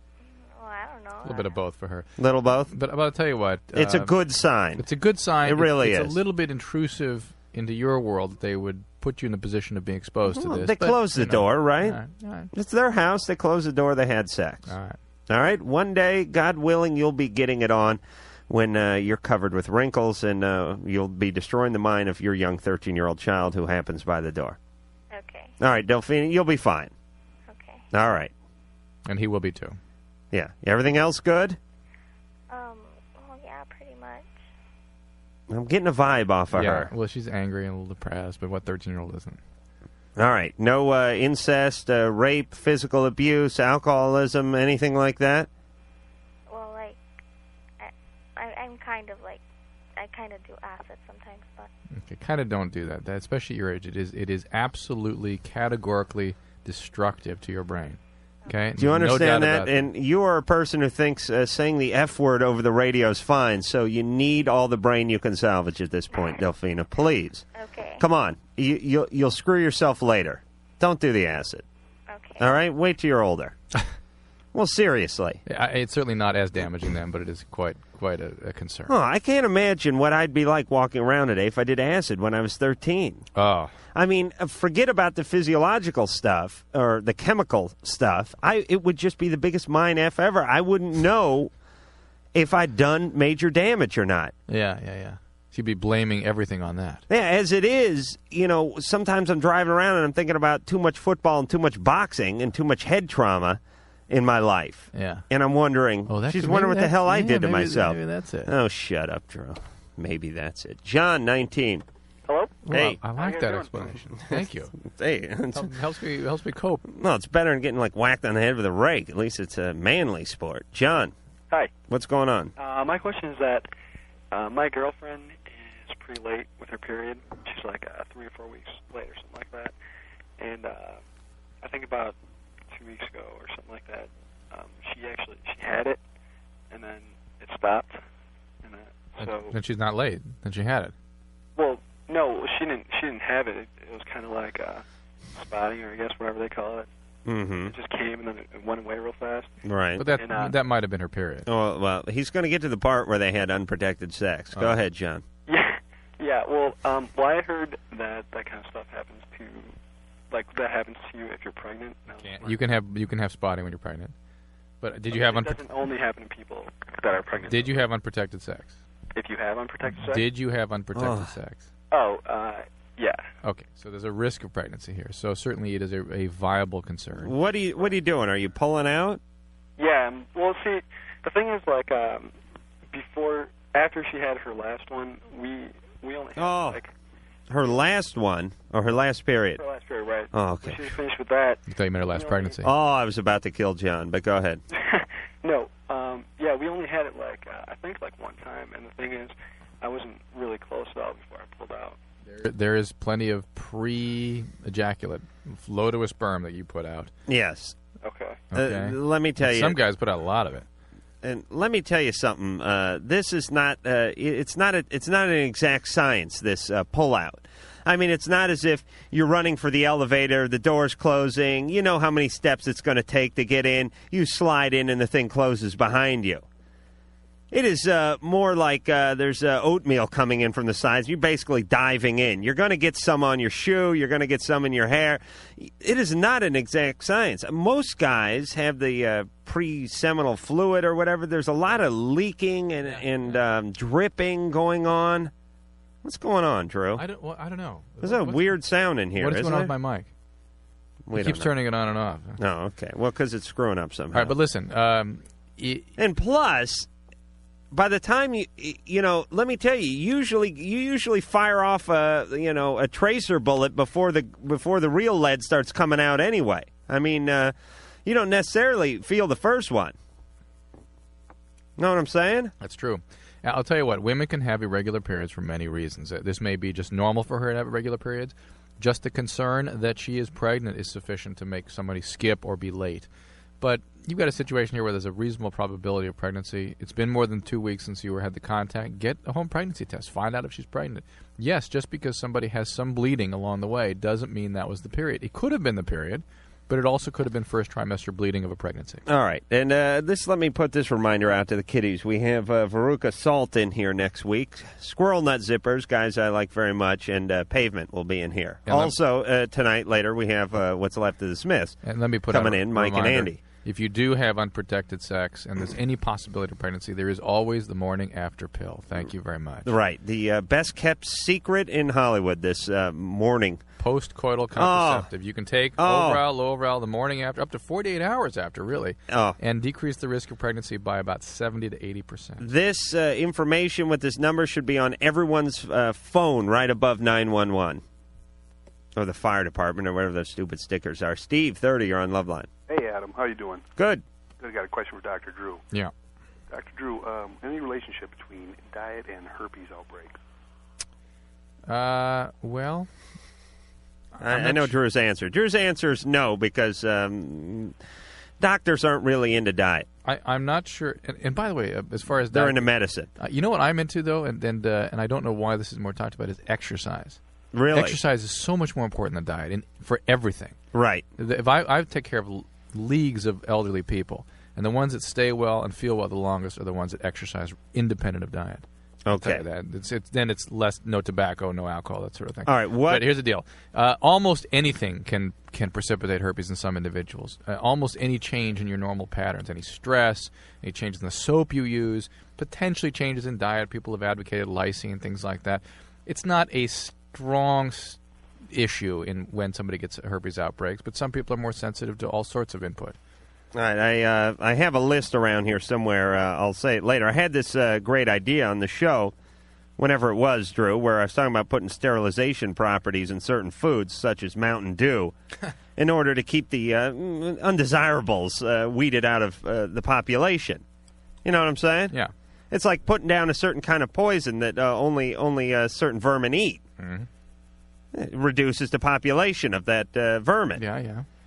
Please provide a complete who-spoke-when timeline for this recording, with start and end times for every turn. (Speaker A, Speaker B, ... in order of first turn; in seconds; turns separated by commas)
Speaker A: 0.2-1.6, Speaker B: 1.2-2.1, Speaker C: 2.2-2.7, Speaker B: 2.7-4.1, Speaker C: 3.7-4.9, Speaker B: 4.8-12.5, Speaker C: 5.4-6.2, Speaker C: 10.2-12.0, Speaker C: 12.5-14.8, Speaker B: 14.7-15.0, Speaker C: 15.3-24.6, Speaker A: 25.1-25.6, Speaker C: 25.6-26.9, Speaker A: 27.5-27.9, Speaker C: 27.9-28.3, Speaker B: 29.1-29.8, Speaker C: 30.3-31.6, Speaker A: 32.5-34.4, Speaker C: 35.5-36.9, Speaker B: 36.5-39.4, Speaker C: 40.2-45.5, Speaker A: 46.5-47.1, Speaker A: 47.8-49.4, Speaker A: 50.0-51.7, Speaker B: 51.9-59.9, Speaker C: 58.8-67.5, Speaker A: 66.1-66.4, Speaker A: 67.5-68.1, Speaker C: 68.0-71.6, Speaker A: 72.1-72.5, Speaker C: 72.4-73.6, Speaker C: 74.5-75.4, Speaker B: 75.5-78.9, Speaker C: 78.9-83.3, Speaker B: 83.3-83.7, Speaker C: 83.9-91.5, Speaker C: 92.3-94.3, Speaker B: 94.5-97.0, Speaker C: 97.1-111.8, Speaker B: 104.9-105.2, Speaker B: 106.1-108.5, Speaker D: 112.3-114.0, Speaker B: 112.6-114.7, Speaker C: 112.7-113.0, Speaker C: 114.3-115.7, Speaker B: 115.6-116.8, Speaker C: 116.9-121.1, Speaker C: 121.9-122.5, Speaker D: 122.6-123.7, Speaker D: 124.3-129.7, Speaker D: 130.4-131.0, Speaker D: 131.6-132.2, Speaker D: 132.7-136.0, Speaker D: 136.7-138.0, Speaker D: 138.6-139.6, Speaker B: 139.2-140.9, Speaker D: 141.6-146.9, Speaker C: 147.3-147.7, Speaker D: 147.7-149.5, Speaker C: 149.7-150.1, Speaker B: 150.0-151.5, Speaker D: 150.1-150.6, Speaker C: 151.5-155.2, Speaker B: 154.5-154.8, Speaker D: 155.5-159.8, Speaker D: 160.3-162.6, Speaker B: 162.2-164.1, Speaker B: 164.8-165.6, Speaker D: 165.1-167.8, Speaker B: 167.5-168.8, Speaker D: 169.2-170.3, Speaker B: 169.9-171.7, Speaker C: 170.9-171.3, Speaker D: 171.9-173.2, Speaker B: 173.4-177.3, Speaker C: 177.2-179.2, Speaker D: 179.8-182.3, Speaker D: 182.9-186.9, Speaker C: 186.4-186.8, Speaker C: 187.5-189.6, Speaker D: 189.6-191.6, Speaker C: 190.3-190.9, Speaker B: 191.7-192.7, Speaker D: 192.1-192.6, Speaker C: 192.6-194.6, Speaker D: 194.7-202.0, Speaker B: 202.3-207.1, Speaker C: 207.3-207.8, Speaker D: 208.0-208.5, Speaker B: 208.5-210.7, Speaker C: 208.5-209.8, Speaker C: 211.2-226.4, Speaker C: 227.5-245.3, Speaker B: 242.8-243.4, Speaker C: 246.0-247.0, Speaker B: 247.0-248.6, Speaker C: 248.0-249.7, Speaker B: 249.2-250.1, Speaker C: 251.1-251.5, Speaker B: 251.1-252.4, Speaker C: 252.4-254.3, Speaker B: 254.1-255.9, Speaker C: 256.0-256.9, Speaker C: 257.7-267.5, Speaker C: 268.1-269.9, Speaker C: 271.8-272.5, Speaker B: 272.6-283.1, Speaker B: 283.6-299.0, Speaker C: 299.1-311.8, Speaker B: 308.7-309.0, Speaker B: 311.8-319.7, Speaker C: 312.3-313.4, Speaker C: 319.6-323.6, Speaker B: 323.8-332.4, Speaker C: 324.6-325.1, Speaker C: 325.8-326.2, Speaker C: 329.1-329.4, Speaker C: 332.4-337.8, Speaker C: 339.0-342.5, Speaker E: 342.7-343.7, Speaker C: 343.8-344.0, Speaker E: 344.4-345.6, Speaker E: 346.5-350.2, Speaker B: 351.7-352.9, Speaker B: 354.1-354.8, Speaker C: 354.2-357.8, Speaker C: 358.4-359.9, Speaker B: 360.1-367.2, Speaker C: 362.3-363.1, Speaker C: 367.5-368.0, Speaker B: 367.7-370.6, Speaker C: 370.7-371.1, Speaker B: 371.2-398.0, Speaker C: 379.1-379.4, Speaker C: 382.5-383.1, Speaker B: 398.5-403.0, Speaker C: 403.5-409.1, Speaker C: 409.8-415.1, Speaker C: 415.8-420.6, Speaker C: 421.2-421.9, Speaker C: 422.5-426.6, Speaker B: 426.8-427.1, Speaker C: 427.9-430.6, Speaker B: 430.6-431.1